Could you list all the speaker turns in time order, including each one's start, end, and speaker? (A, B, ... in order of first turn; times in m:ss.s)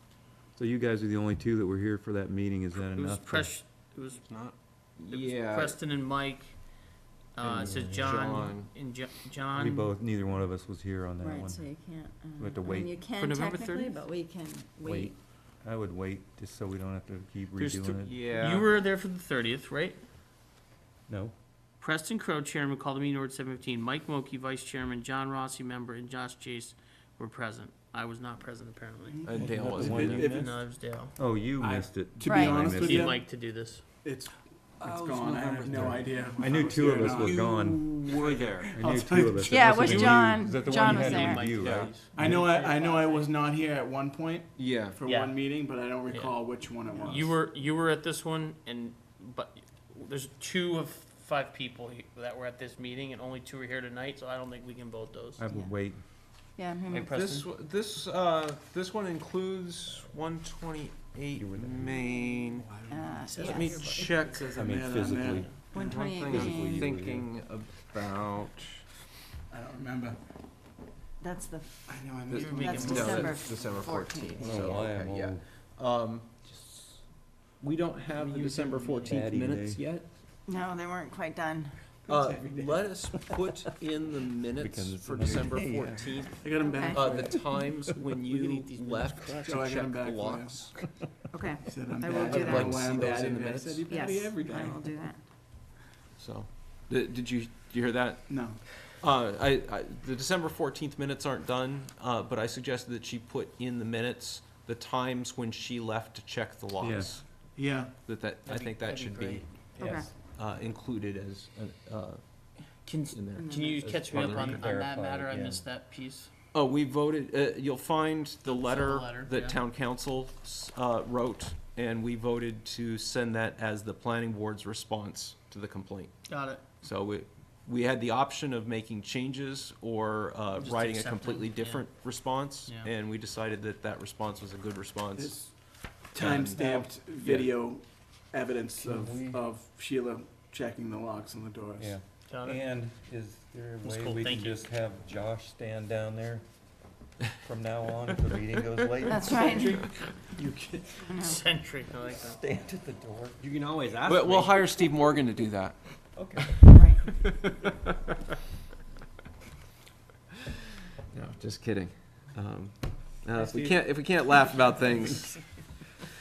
0:00.6-0:03.5 A
0:02.7-0:10.0 B
0:04.3-0:05.8 C
0:07.4-0:08.5 A
0:07.9-0:08.7 C
0:09.5-0:11.7 A
0:11.2-0:15.2 D
0:12.4-0:13.0 A
0:13.1-0:14.0 B
0:14.8-0:18.2 A
0:17.6-0:20.0 B
0:18.0-0:18.7 C
0:21.1-0:21.4 A
0:21.8-0:31.2 B
0:29.1-0:30.6 E
0:29.3-0:30.5 C
0:29.4-0:30.4 A
0:31.2-0:33.2 A
0:31.6-0:33.3 E
0:32.3-0:32.8 D
0:32.7-0:33.8 B
0:34.0-0:39.7 E
0:34.8-0:35.9 F
0:35.6-0:42.4 A
0:35.6-0:36.0 C
0:37.0-0:37.3 C
0:38.0-0:38.7 C
0:39.4-0:41.5 D
0:39.6-0:43.3 B
0:41.6-0:41.9 C
0:42.1-0:47.4 E
0:44.6-0:45.0 C
0:45.0-0:45.6 B
0:46.1-0:55.4 B
0:46.9-0:47.2 D
0:55.4-0:56.0 A
0:56.6-0:57.1 D
0:56.9-0:57.5 B
0:57.0-1:02.7 C
1:01.4-1:02.2 A
1:02.4-1:03.2 E
1:02.9-1:03.9 D
1:03.2-1:04.1 B
1:03.4-1:04.8 C
1:04.0-1:06.0 E
1:04.6-1:07.3 A
1:05.5-1:06.9 D
1:05.8-1:08.8 C
1:09.5-1:10.2 E
1:11.2-1:14.8 D
1:11.9-1:13.3 E
1:12.3-1:13.4 B
1:12.8-1:16.3 C
1:14.4-1:15.4 A
1:16.4-1:17.0 A
1:17.6-1:20.1 C
1:18.5-1:19.1 E
1:18.7-1:19.8 A
1:20.5-1:21.9 D
1:22.0-1:22.9 E
1:22.1-1:30.8 C
1:24.6-1:26.3 A
1:26.4-1:27.5 E
1:26.6-1:27.0 D
1:27.9-1:29.8 B
1:29.4-1:30.7 E
1:31.3-1:32.9 D
1:31.6-1:34.8 E
1:32.1-1:34.1 C
1:33.9-1:35.2 D
1:36.2-1:54.7 C
1:38.3-1:38.6 E
1:46.8-1:47.2 A
1:47.6-1:47.9 E
1:48.4-1:50.1 B
1:49.8-1:50.1 D
1:52.8-1:56.3 B
1:53.4-1:54.0 D
1:53.8-1:55.6 A
1:56.5-2:15.6 C
1:58.4-1:59.6 B
2:06.3-2:06.6 B
2:10.5-2:12.9 B
2:15.2-2:22.0 E
2:16.2-2:16.7 C
2:16.6-2:16.9 A
2:17.2-2:17.5 C
2:18.8-2:19.4 A
2:21.8-2:26.5 A
2:22.3-2:22.7 B
2:23.8-2:24.7 B
2:27.4-2:29.6 A
2:29.1-2:30.0 D
2:29.4-2:30.4 C
2:31.0-2:31.4 D
2:31.1-2:32.4 B
2:32.2-2:33.4 A
2:33.4-2:34.5 F
2:34.0-2:35.8 C
2:36.1-2:36.6 A
2:36.7-2:37.1 D
2:41.2-2:45.5 C